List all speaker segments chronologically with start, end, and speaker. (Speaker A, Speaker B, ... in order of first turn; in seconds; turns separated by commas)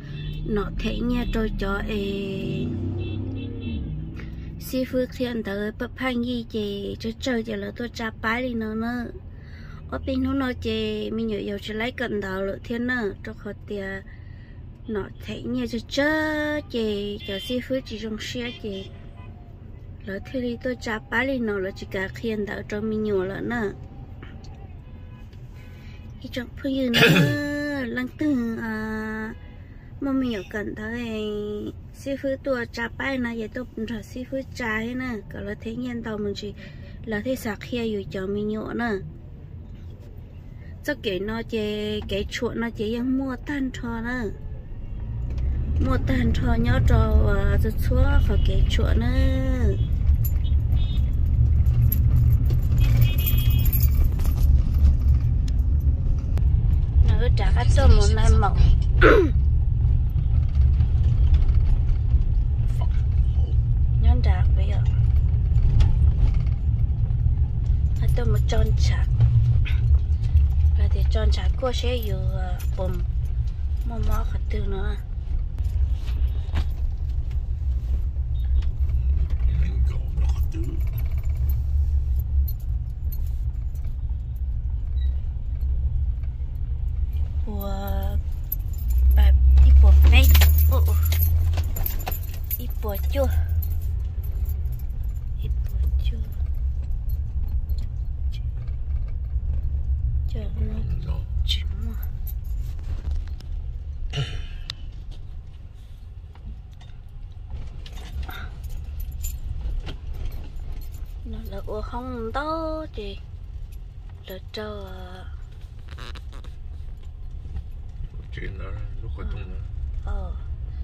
Speaker A: 0.5-2.8, Speaker A: 4.6-9.2, Speaker A: 9.9-14.1, Speaker A: 14.9-18.9, Speaker A: 20.0-23.8, Speaker A: 26.2-29.4, Speaker A: 30.0-39.0, Speaker A: 40.8-44.4, Speaker A: 45.8-49.8, Speaker A: 57.0-59.3, Speaker B: 62.7-63.6, Speaker A: 64.0-64.9, Speaker A: 68.0-69.1, Speaker A: 70.8-73.1, Speaker A: 73.8-75.0, Speaker B: 79.0-80.9, Speaker A: 87.4-88.2, Speaker A: 89.2-91.1, Speaker A: 92.6-93.4, Speaker A: 95.4-96.3, Speaker A: 100.3-100.9, Speaker B: 100.4-101.3, Speaker A: 101.4-102.0, Speaker A: 111.2-113.2, Speaker A: 114.2-115.3, Speaker B: 118.1-119.7, Speaker A: 120.0-120.5